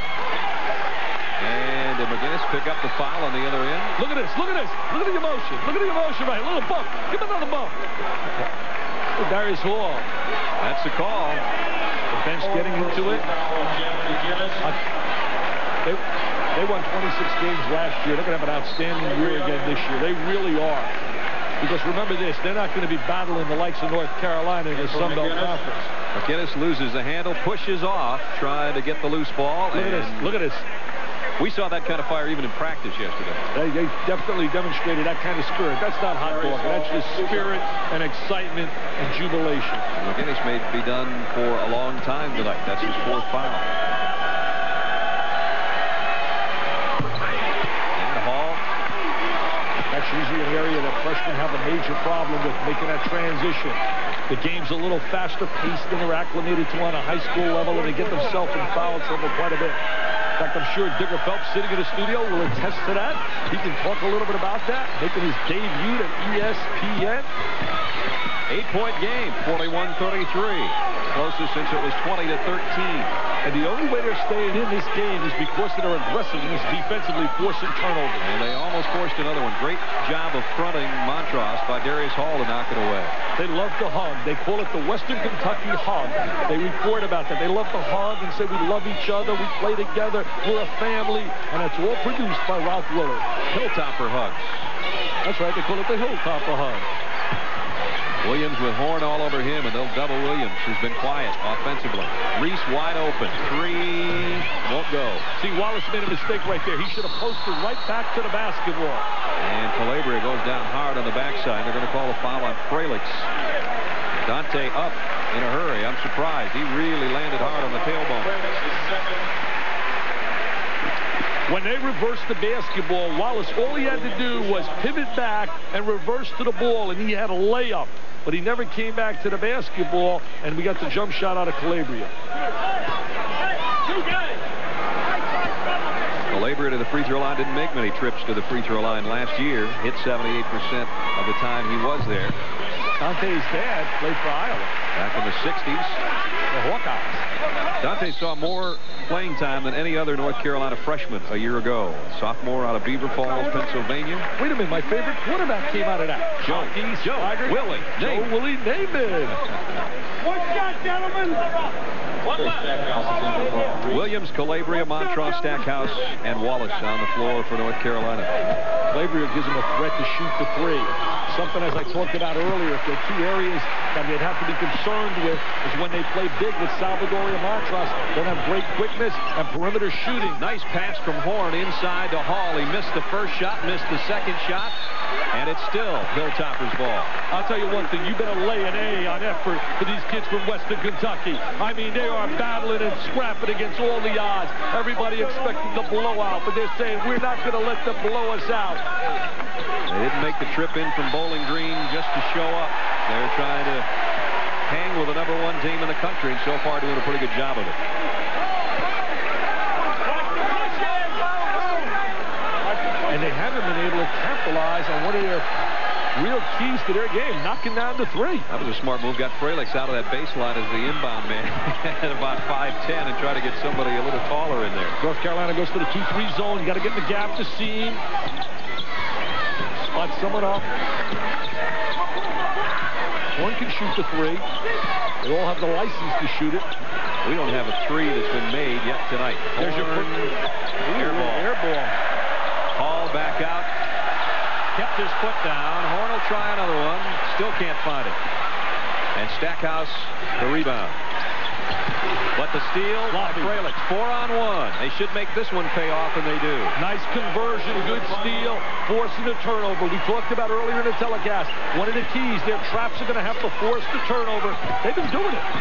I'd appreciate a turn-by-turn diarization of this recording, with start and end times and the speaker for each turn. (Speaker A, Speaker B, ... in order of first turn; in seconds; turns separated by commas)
Speaker A: 1.4-4.0, Speaker B: 4.0-7.8, Speaker B: 9.2-10.1, Speaker A: 10.6-11.4, Speaker B: 12.1-13.3, Speaker C: 12.4-14.7, Speaker B: 16.5-20.9, Speaker B: 21.6-25.9, Speaker C: 24.7-25.6, Speaker A: 26.1-30.3, Speaker B: 29.7-30.6, Speaker A: 31.4-33.4, Speaker B: 33.5-39.9, Speaker C: 36.2-37.7, Speaker A: 40.0-43.7, Speaker A: 48.0-48.6, Speaker B: 49.9-59.8, Speaker B: 60.4-67.3, Speaker A: 68.5-73.1, Speaker B: 73.4-78.3, Speaker A: 78.2-83.1, Speaker B: 83.4-93.3, Speaker A: 93.5-94.7, Speaker B: 95.2-96.9, Speaker A: 98.2-105.2, Speaker B: 105.4-109.0, Speaker A: 109.4-113.3, Speaker A: 114.2-118.3, Speaker C: 117.4-119.3, Speaker B: 121.5-132.1, Speaker A: 136.3-142.4, Speaker B: 143.0-144.7, Speaker A: 144.9-146.0, Speaker B: 146.5-147.2, Speaker A: 147.8-154.3, Speaker B: 154.4-159.4, Speaker A: 156.4-158.3, Speaker C: 162.2-164.1, Speaker A: 163.9-168.3, Speaker B: 168.9-180.4, Speaker A: 180.2-184.7, Speaker A: 185.3-187.1, Speaker B: 187.3-198.8, Speaker A: 199.9-203.9, Speaker A: 204.7-207.8, Speaker B: 213.1-215.6, Speaker B: 216.1-218.5, Speaker A: 218.5-225.0, Speaker B: 225.0-228.0, Speaker B: 229.8-230.7, Speaker B: 233.4-234.4, Speaker B: 235.2-236.7, Speaker A: 237.2-240.3, Speaker B: 239.6-241.9, Speaker A: 240.9-241.5, Speaker A: 242.7-243.7, Speaker A: 244.7-248.2, Speaker A: 249.1-251.0, Speaker A: 252.3-256.8, Speaker B: 253.1-253.6, Speaker B: 256.7-265.4, Speaker C: 257.1-258.6